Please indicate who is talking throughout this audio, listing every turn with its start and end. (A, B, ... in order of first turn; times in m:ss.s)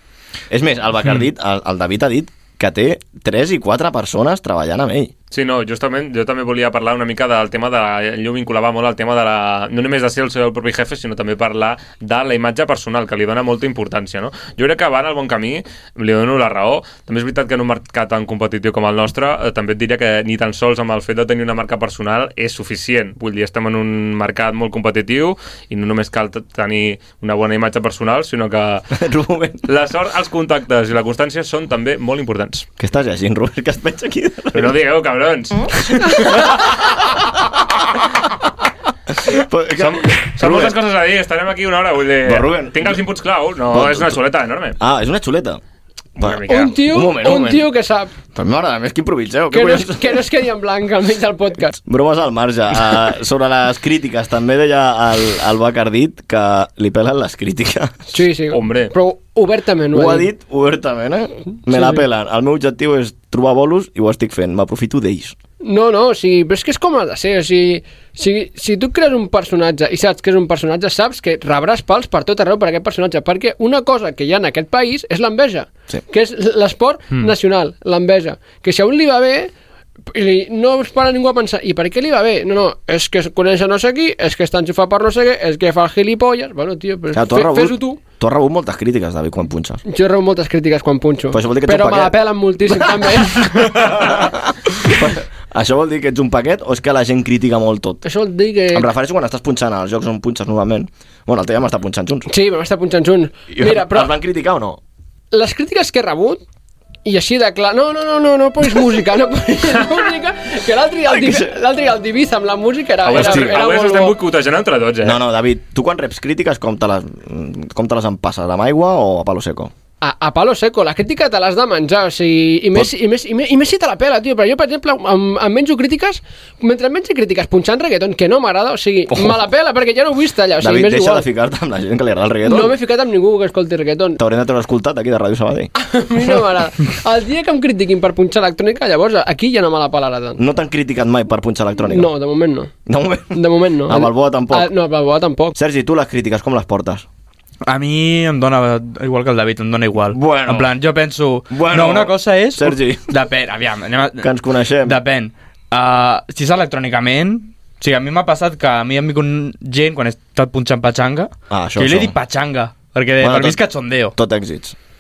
0:00.5-0:05.1 A
0:05.3-0:28.9 B
0:28.9-0:29.6 A
0:29.7-0:32.7 B
0:32.8-0:34.8 A
0:34.5-0:36.7 B
0:35.9-0:37.6 A
0:39.1-0:40.8 A
0:39.8-0:44.8 B
0:42.2-0:43.0 A
0:43.7-0:44.2 A
0:44.8-0:45.6 A
0:46.2-0:46.8 B
0:46.2-0:47.7 A
0:46.5-0:48.1 C
0:48.4-0:50.2 A
0:49.5-0:51.8 C
0:51.8-0:58.0 A
0:58.1-1:00.3 C
0:58.5-0:58.9 B
0:59.9-1:05.4 A
1:01.7-1:02.0 C
1:05.6-1:19.5 C
1:20.1-1:28.0 C
1:27.1-1:29.8 A
1:29.9-1:34.2 C
1:31.3-1:38.0 A
1:38.0-1:38.9 C
1:38.7-1:42.3 A
1:42.3-1:44.2 C
1:43.5-1:44.8 A
1:45.3-1:46.4 C
1:47.0-1:54.2 C
1:51.1-1:51.5 A
1:53.0-1:55.2 B
1:53.1-1:53.6 A
1:55.0-1:59.7 A
2:00.0-2:11.2 C
2:09.1-2:09.4 A
2:10.6-2:12.8 A
2:12.4-2:14.2 C
2:14.2-2:16.4 A
2:15.8-2:20.4 C
2:20.4-2:22.1 A
2:21.9-2:22.7 C
2:22.9-2:24.7 A
2:23.3-2:25.6 C
2:25.6-2:27.1 A
2:27.7-2:34.3 D
2:30.1-2:30.7 A
2:31.5-2:33.1 A
2:34.2-2:35.0 A
2:34.8-2:44.1 D
2:41.5-2:42.2 A
2:43.2-2:43.6 A
2:44.2-2:44.8 A